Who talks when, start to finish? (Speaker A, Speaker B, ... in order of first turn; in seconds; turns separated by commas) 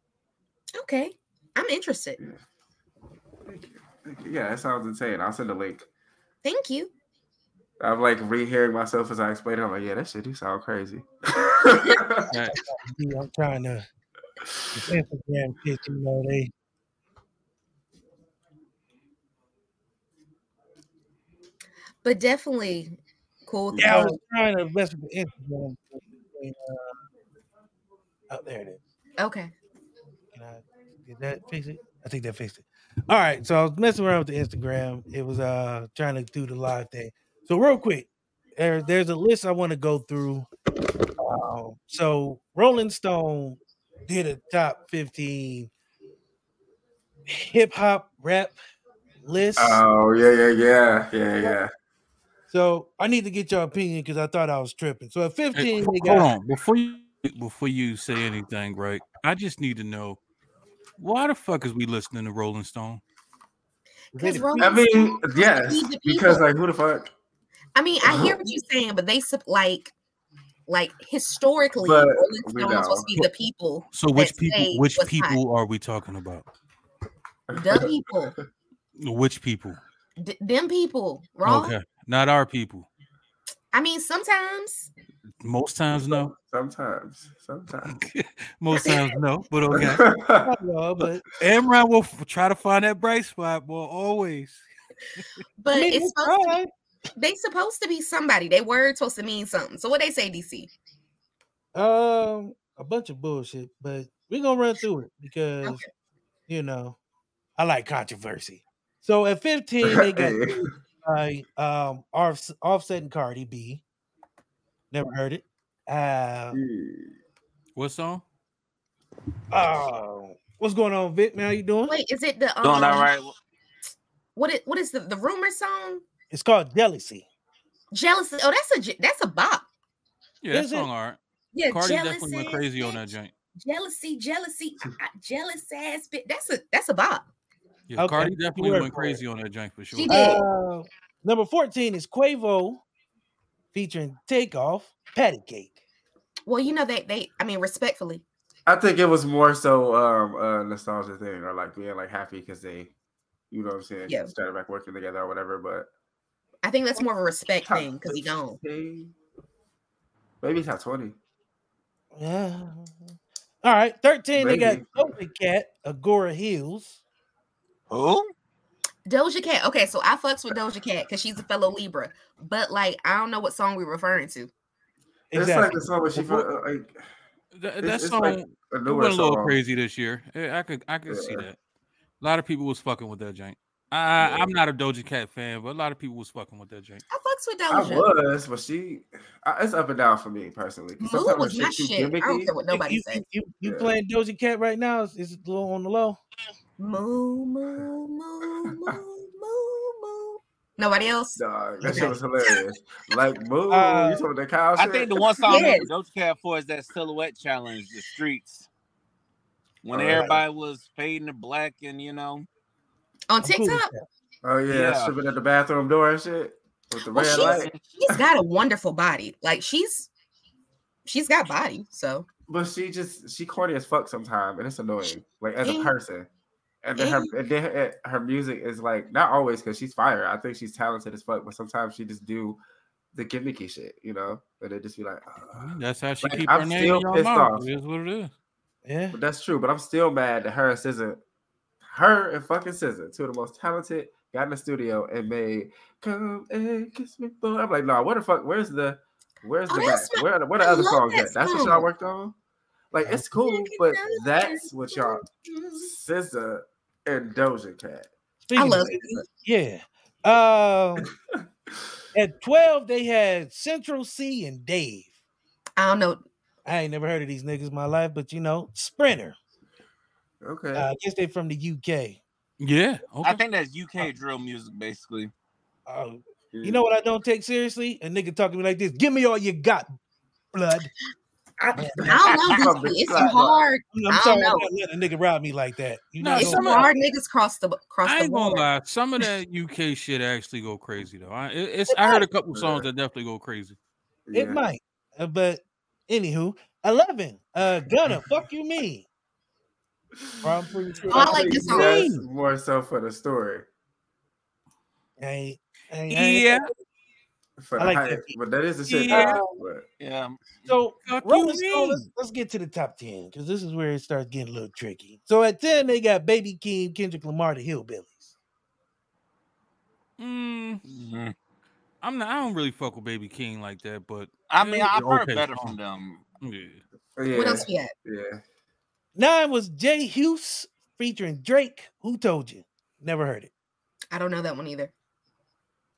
Speaker A: 0.7-2.2, Speaker B: 3.5-5.8, Speaker A: 6.4-6.9, Speaker B: 7.8-12.3, Speaker C: 12.3-12.6, Speaker D: 12.7-13.8, Speaker D: 14.8-16.5, Speaker A: 22.0-24.2, Speaker D: 23.8-27.0, Speaker D: 28.3-28.8, Speaker A: 29.2-29.5, Speaker D: 30.3-40.5, Speaker D: 41.2-45.7, Speaker D: 47.3-48.6, Speaker D: 49.2-49.8, Speaker B: 49.6-51.7, Speaker D: 52.5-56.3, Speaker C: 55.5-60.2, Speaker C: 61.0-63.0, Speaker D: 64.1-64.8, Speaker A: 64.2-66.4, Speaker B: 64.6-67.1, Speaker A: 67.8-69.9, Speaker B: 68.0-68.4, Speaker A: 70.7-75.4, Speaker B: 71.8-73.1, Speaker C: 73.9-76.5, Speaker B: 77.5-78.0, Speaker A: 77.5-78.3, Speaker C: 79.0-79.8, Speaker A: 80.2-81.7, Speaker C: 81.4-82.9, Speaker A: 83.7-84.9, Speaker C: 85.4-86.3, Speaker B: 85.9-88.0, Speaker C: 87.9-90.0, Speaker A: 88.7-89.0, Speaker B: 89.7-90.5, Speaker D: 90.4-91.2, Speaker C: 91.4-94.6, Speaker A: 95.6-96.6, Speaker D: 95.7-96.7, Speaker A: 97.2-100.7, Speaker D: 101.7-105.8, Speaker A: 105.6-105.9, Speaker D: 106.5-107.0, Speaker D: 107.6-113.8, Speaker B: 109.8-110.7, Speaker D: 114.9-116.6, Speaker B: 116.5-117.2, Speaker C: 117.8-118.2, Speaker D: 119.5-121.9, Speaker A: 121.9-123.1, Speaker E: 122.6-123.3, Speaker A: 124.3-126.0, Speaker D: 126.3-127.3, Speaker A: 127.9-129.7, Speaker C: 130.4-131.2, Speaker D: 130.5-130.9, Speaker A: 131.5-137.2, Speaker C: 131.7-133.3, Speaker C: 137.9-140.1, Speaker D: 138.0-139.2, Speaker A: 139.9-140.4, Speaker D: 140.1-142.8, Speaker D: 143.7-145.8, Speaker A: 146.4-148.2, Speaker B: 148.7-152.9, Speaker B: 153.5-155.9, Speaker A: 156.6-158.6, Speaker B: 157.6-159.1, Speaker B: 160.4-161.2, Speaker D: 162.1-167.0, Speaker B: 164.4-165.1, Speaker E: 167.9-168.3, Speaker A: 169.1-174.5, Speaker D: 175.3-176.4, Speaker B: 175.3-176.9, Speaker C: 177.5-181.6, Speaker B: 177.8-179.6, Speaker B: 181.1-181.4, Speaker C: 182.2-187.0, Speaker B: 184.2-184.5, Speaker A: 187.1-188.1, Speaker B: 187.7-192.5, Speaker A: 191.0-193.2, Speaker D: 192.7-196.2, Speaker B: 193.6-193.9, Speaker A: 196.8-202.6, Speaker B: 201.4-205.7, Speaker D: 201.8-202.1, Speaker D: 203.7-204.3, Speaker E: 204.8-208.7, Speaker A: 205.4-205.9, Speaker E: 209.8-212.5, Speaker B: 209.9-210.4, Speaker A: 213.3-213.9, Speaker D: 213.4-214.0, Speaker B: 214.4-218.2, Speaker E: 214.7-215.1, Speaker A: 217.0-220.1, Speaker E: 217.3-217.8, Speaker A: 221.1-222.3, Speaker B: 222.5-226.3, Speaker A: 225.0-225.9, Speaker B: 226.8-232.6, Speaker A: 227.0-227.3, Speaker B: 233.1-235.7, Speaker C: 235.5-238.3, Speaker B: 236.2-237.7, Speaker D: 238.8-239.2, Speaker B: 239.1-241.2, Speaker B: 241.9-252.3, Speaker A: 249.7-251.9, Speaker B: 252.9-258.1, Speaker A: 253.3-255.8, Speaker D: 258.4-261.1, Speaker A: 258.5-259.1, Speaker D: 262.1-265.1, Speaker A: 265.8-266.2, Speaker D: 266.6-269.4, Speaker B: 270.4-270.9, Speaker D: 270.7-272.2, Speaker C: 272.6-273.4, Speaker E: 273.2-275.3, Speaker D: 275.9-279.9, Speaker B: 276.5-276.8, Speaker D: 280.5-280.9, Speaker A: 281.6-284.7, Speaker D: 281.8-282.4, Speaker B: 282.4-283.6, Speaker D: 283.9-286.9, Speaker C: 286.2-286.9, Speaker A: 286.4-288.7, Speaker C: 288.0-293.8, Speaker A: 291.9-292.2, Speaker B: 292.5-292.9, Speaker B: 294.3-294.6, Speaker D: 294.3-299.1, Speaker D: 300.4-302.2, Speaker B: 301.1-303.6, Speaker A: 301.1-302.1, Speaker D: 305.2-306.7, Speaker C: 306.1-306.7, Speaker B: 307.6-309.8, Speaker D: 307.8-308.3, Speaker C: 308.9-309.4, Speaker D: 309.1-309.6, Speaker E: 310.0-310.6, Speaker D: 310.7-318.3, Speaker C: 311.1-312.1, Speaker C: 320.2-320.8, Speaker E: 320.9-321.3, Speaker C: 322.0-325.8, Speaker E: 324.5-326.2, Speaker C: 326.4-326.8, Speaker B: 327.2-328.4, Speaker A: 327.3-327.9, Speaker D: 329.1-333.5, Speaker A: 334.1-334.9